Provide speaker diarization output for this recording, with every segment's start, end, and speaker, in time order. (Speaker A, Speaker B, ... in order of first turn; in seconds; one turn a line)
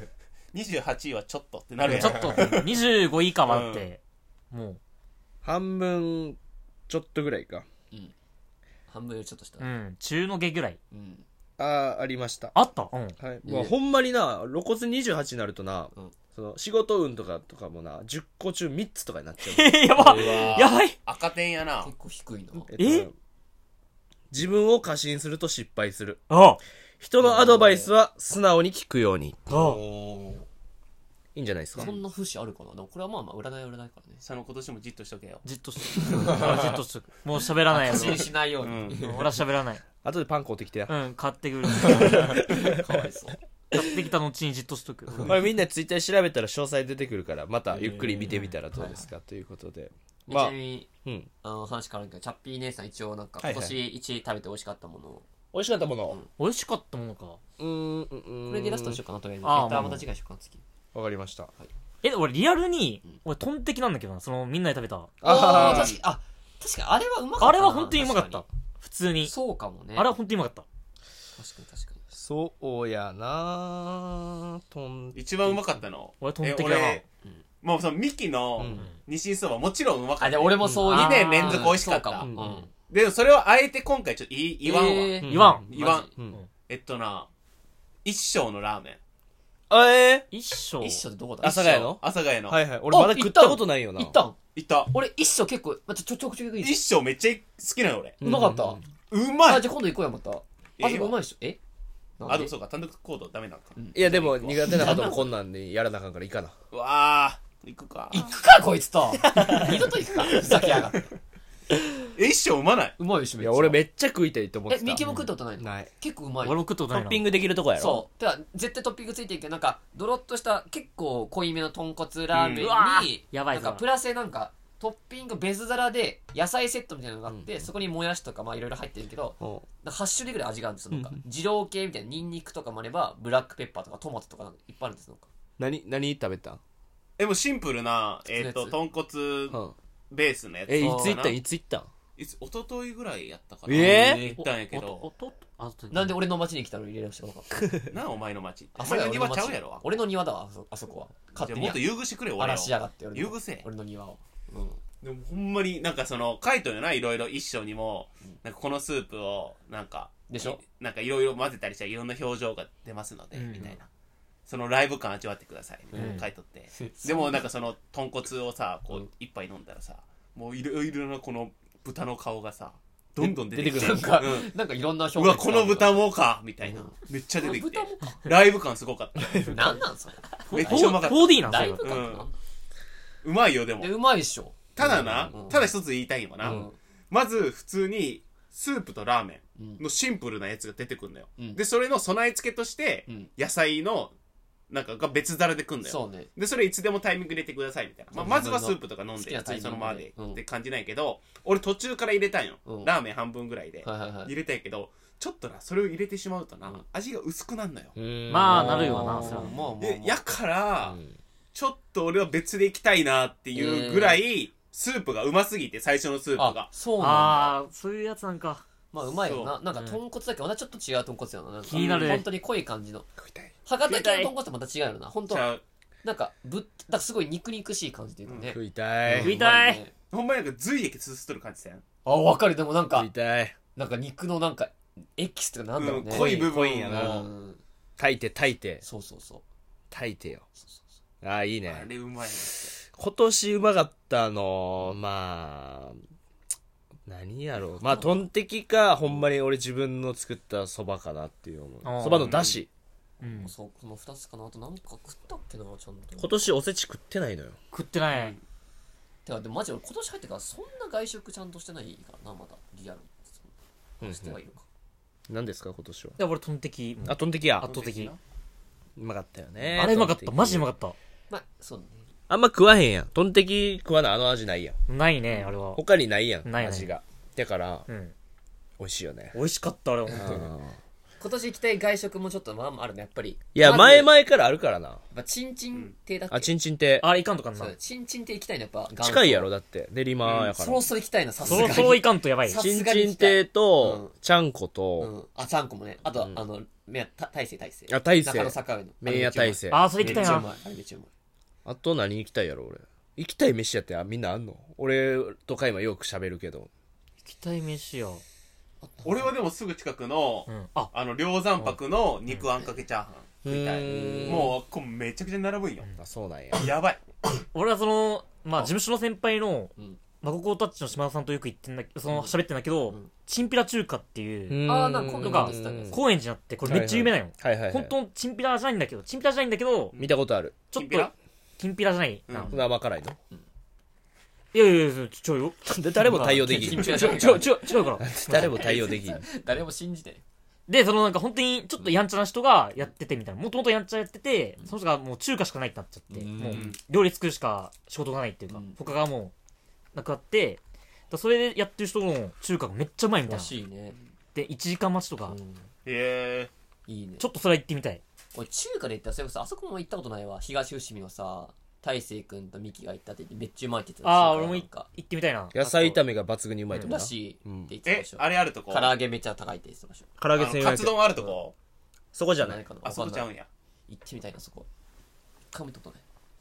Speaker A: 0.5-2.8
Speaker B: 1.8-4.0
Speaker C: 1.8-2.6
Speaker A: 3.5-3.9
Speaker B: 4.5-4.8
Speaker D: 5.4-7.7
Speaker C: 8.9-9.7
Speaker B: 9.6-10.8
Speaker C: 10.9-11.2
Speaker D: 11.6-12.5
Speaker B: 12.5-13.2
Speaker D: 13.2-19.8
Speaker C: 13.4-13.7
Speaker B: 19.4-20.9
Speaker C: 20.0-20.7
Speaker A: 20.0-21.9
Speaker C: 21.8-22.7
Speaker D: 22.7-23.1
Speaker B: 22.8-23.1
Speaker D: 24.3-26.2
Speaker B: 26.3-26.6
Speaker D: 27.0-29.7
Speaker C: 27.2-27.9
Speaker B: 29.5-29.8
Speaker C: 29.5-30.4
Speaker D: 31.3-31.9
Speaker C: 31.7-34.2
Speaker A: 34.2-35.4
Speaker B: 35.4-38.3
Speaker C: 35.9-36.8
Speaker C: 37.7-39.3
Speaker A: 38.0-39.1
Speaker B: 39.0-39.8
Speaker D: 40.0-40.9
Speaker B: 40.9-42.5
Speaker D: 41.8-42.8
Speaker C: 41.8-43.4
Speaker B: 43.7-45.4
Speaker D: 45.2-50.5
Speaker C: 47.7-49.1
Speaker C: 50.3-50.9
Speaker D: 51.0-51.3
Speaker C: 51.4-55.2
Speaker D: 53.4-53.8
Speaker D: 55.5-56.2
Speaker B: 56.4-57.4
Speaker D: 57.6-59.0
Speaker C: 58.5-60.6
Speaker B: 59.4-60.0
Speaker D: 60.9-61.5
Speaker B: 62.0-65.1
Speaker D: 65.2-66.0
Speaker C: 65.2-68.4
Speaker A: 65.3-66.0
Speaker B: 67.4-69.3
Speaker C: 69.2-70.1
Speaker B: 70.0-70.6
Speaker C: 71.4-72.0
Speaker D: 72.1-75.5
Speaker A: 75.1-77.0
Speaker B: 76.2-77.0
Speaker A: 77.6-82.3
Speaker D: 78.6-78.8
Speaker C: 80.2-82.7
Speaker B: 80.8-81.8
Speaker D: 82.2-82.6
Speaker A: 82.9-86.1
Speaker C: 84.6-86.1
Speaker D: 85.2-86.4
Speaker B: 85.3-86.5
Speaker A: 86.7-87.3
Speaker A: 88.0-89.0
Speaker D: 89.7-90.3
Speaker B: 90.3-91.0
Speaker C: 90.8-92.0
Speaker D: 91.4-94.2
Speaker A: 91.8-92.6
Speaker C: 92.9-94.4
Speaker A: 94.5-94.9
Speaker C: 94.9-96.8
Speaker A: 96.6-98.2
Speaker D: 98.2-98.8
Speaker C: 98.2-98.8
Speaker A: 99.1-99.7
Speaker C: 99.4-101.6
Speaker A: 100.8-101.2
Speaker C: 102.2-102.5
Speaker A: 102.2-105.2
Speaker C: 103.8-104.0
Speaker D: 103.9-106.5
Speaker C: 104.6-105.3
Speaker A: 106.7-108.3
Speaker C: 108.1-111.1
Speaker D: 109.3-109.8
Speaker A: 112.1-113.0
Speaker C: 113.0-113.8
Speaker D: 113.4-115.0
Speaker C: 114.7-116.6
Speaker B: 115.0-115.3
Speaker D: 115.6-115.9
Speaker B: 116.4-117.2
Speaker D: 116.9-118.0
Speaker C: 117.8-135.3
Speaker A: 122.3-122.7
Speaker B: 122.6-123.8
Speaker D: 127.3-127.6
Speaker D: 129.4-129.6
Speaker D: 130.9-131.2
Speaker D: 135.6-136.6
Speaker A: 137.2-139.6
Speaker C: 138.3-138.8
Speaker A: 140.1-141.4
Speaker D: 140.7-141.9
Speaker C: 140.8-141.2
Speaker A: 142.2-145.1
Speaker D: 143.7-144.3
Speaker C: 143.7-144.4
Speaker B: 144.3-146.2
Speaker C: 145.9-147.6
Speaker A: 147.9-149.9
Speaker C: 148.7-154.8
Speaker A: 151.4-153.7
Speaker A: 155.0-163.9
Speaker C: 160.3-160.6
Speaker B: 163.3-163.7
Speaker A: 164.5-174.5
Speaker C: 165.9-167.5
Speaker B: 165.9-166.2
Speaker D: 173.2-174.2
Speaker C: 173.6-176.1
Speaker A: 175.1-179.8
Speaker C: 176.6-178.3
Speaker C: 179.4-182.3
Speaker B: 180.5-182.1
Speaker A: 180.5-182.3
Speaker A: 183.2-184.0
Speaker C: 183.8-185.7
Speaker A: 184.7-194.1
Speaker D: 184.8-185.3
Speaker C: 186.4-186.8
Speaker C: 189.6-189.8
Speaker A: 194.7-207.9
Speaker C: 195.8-196.3
Speaker C: 198.1-200.4
Speaker C: 202.7-202.9
Speaker C: 203.8-204.3
Speaker D: 207.9-209.4
Speaker B: 208.3-209.5
Speaker C: 208.5-210.2
Speaker A: 209.8-211.0
Speaker D: 210.8-211.2
Speaker A: 211.5-216.7
Speaker C: 213.5-214.2
Speaker C: 216.4-217.6
Speaker B: 217.0-218.6
Speaker C: 218.9-223.1
Speaker A: 219.2-219.5
Speaker B: 221.6-222.3
Speaker A: 221.7-222.3
Speaker D: 223.2-223.5
Speaker C: 223.7-229.9
Speaker B: 223.8-224.3
Speaker A: 225.3-225.6
Speaker A: 228.2-228.6
Speaker D: 228.5-229.4
Speaker B: 229.2-229.8
Speaker A: 230.1-231.8
Speaker C: 232.0-233.1
Speaker D: 232.9-233.6
Speaker C: 233.8-237.6
Speaker A: 235.8-237.3
Speaker D: 236.1-237.3
Speaker D: 238.0-238.8
Speaker C: 238.8-239.4
Speaker D: 239.9-240.4
Speaker C: 240.6-240.9
Speaker D: 241.2-241.9
Speaker A: 241.7-242.7
Speaker D: 242.4-246.0
Speaker D: 247.1-252.7
Speaker C: 247.8-248.2
Speaker B: 251.8-252.5
Speaker A: 252.1-252.6
Speaker B: 253.2-253.5
Speaker C: 253.2-256.5
Speaker D: 256.2-257.6
Speaker B: 257.7-258.4
Speaker A: 258.1-258.4
Speaker C: 259.2-264.6
Speaker D: 264.0-264.4
Speaker D: 265.3-266.1
Speaker B: 266.2-268.1
Speaker D: 267.0-267.7
Speaker A: 267.6-268.2
Speaker D: 269.0-270.7
Speaker B: 269.7-270.9
Speaker C: 271.3-272.1
Speaker D: 272.3-274.8
Speaker B: 274.9-275.8
Speaker D: 275.7-277.9
Speaker B: 276.4-276.9
Speaker B: 277.9-278.1
Speaker D: 278.8-279.4
Speaker B: 279.3-280.5
Speaker D: 280.1-280.8
Speaker C: 281.2-284.1
Speaker D: 283.5-285.0
Speaker C: 285.1-286.5
Speaker D: 286.3-287.1
Speaker B: 287.0-287.8
Speaker C: 287.6-289.5
Speaker D: 289.0-290.9
Speaker A: 290.2-290.5
Speaker C: 290.5-294.1
Speaker D: 291.4-291.9
Speaker B: 291.5-292.6
Speaker D: 292.5-295.1
Speaker C: 295.0-301.1
Speaker D: 296.0-296.4
Speaker D: 297.9-299.9
Speaker B: 299.7-300.4
Speaker A: 300.0-300.5
Speaker D: 301.6-306.7
Speaker B: 307.2-308.2
Speaker C: 308.8-309.3
Speaker A: 309.0-316.0
Speaker B: 310.5-310.9
Speaker D: 313.4-314.5
Speaker C: 313.8-314.6
Speaker D: 316.0-316.7
Speaker A: 316.5-317.0
Speaker B: 317.5-329.9
Speaker C: 322.1-322.4
Speaker D: 324.5-326.0
Speaker C: 324.6-326.1
Speaker D: 326.6-327.9
Speaker D: 329.9-330.6
Speaker B: 330.7-332.3
Speaker A: 330.8-331.1
Speaker A: 332.3-332.6
Speaker C: 332.3-332.7
Speaker D: 332.5-333.2
Speaker B: 334.5-338.7
Speaker D: 335.7-339.2
Speaker C: 336.1-340.2
Speaker B: 340.7-349.3
Speaker C: 346.1-346.7
Speaker A: 346.5-346.8
Speaker C: 348.5-348.8
Speaker B: 349.9-350.6
Speaker B: 351.1-353.5
Speaker C: 353.2-354.0
Speaker B: 354.3-355.4
Speaker C: 355.3-355.7
Speaker A: 355.8-356.5
Speaker C: 356.9-357.3
Speaker B: 357.2-358.0
Speaker C: 358.3-364.9
Speaker B: 364.0-366.0
Speaker D: 365.5-367.7
Speaker C: 366.9-370.1
Speaker A: 367.9-369.0
Speaker D: 370.2-371.0
Speaker A: 370.3-371.5
Speaker D: 372.1-372.6
Speaker C: 372.4-373.3
Speaker A: 372.8-373.5
Speaker C: 373.9-374.7
Speaker C: 375.5-376.0